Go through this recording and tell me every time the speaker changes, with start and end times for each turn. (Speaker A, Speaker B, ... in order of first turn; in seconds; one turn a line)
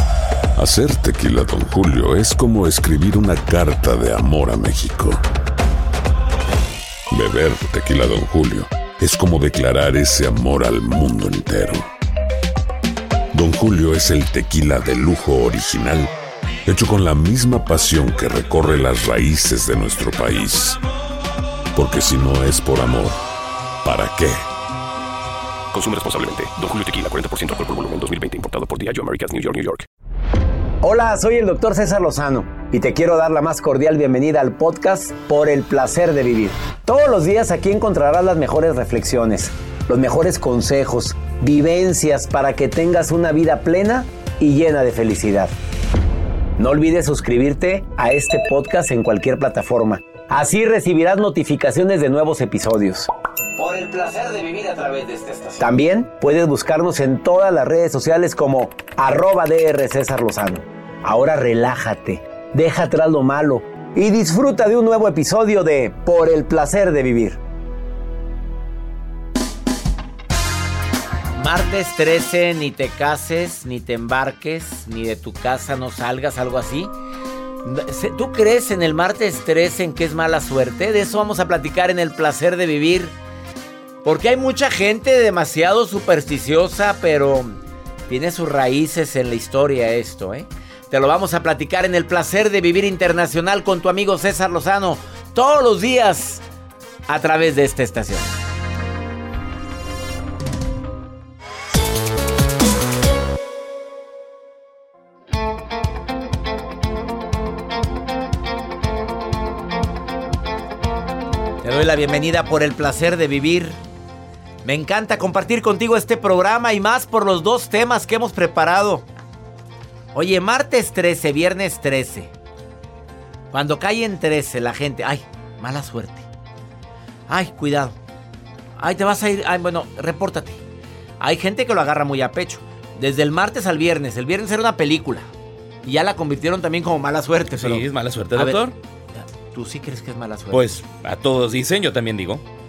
Speaker A: 0.6-5.2
Speaker A: 7.1-11.8
Speaker A: 13.3-16.1
Speaker A: 16.6-20.8
Speaker A: 21.7-23.2
Speaker A: 23.8-24.4
Speaker B: 25.7-29.9
Speaker C: 30.8-45.5
Speaker C: 46.6-67.4
Speaker C: 71.3-76.9
Speaker C: 77.6-83.1
Speaker C: 84.0-96.4
Speaker C: 97.1-98.3
Speaker C: 111.6-113.8
Speaker C: 114.6-119.0
Speaker C: 120.1-122.3
Speaker C: 123.5-126.2
Speaker C: 127.3-128.0
Speaker C: 128.8-130.6
Speaker C: 131.2-135.3
Speaker C: 135.8-138.6
Speaker D: 137.6-138.7
Speaker C: 139.1-140.8
Speaker D: 140.5-142.4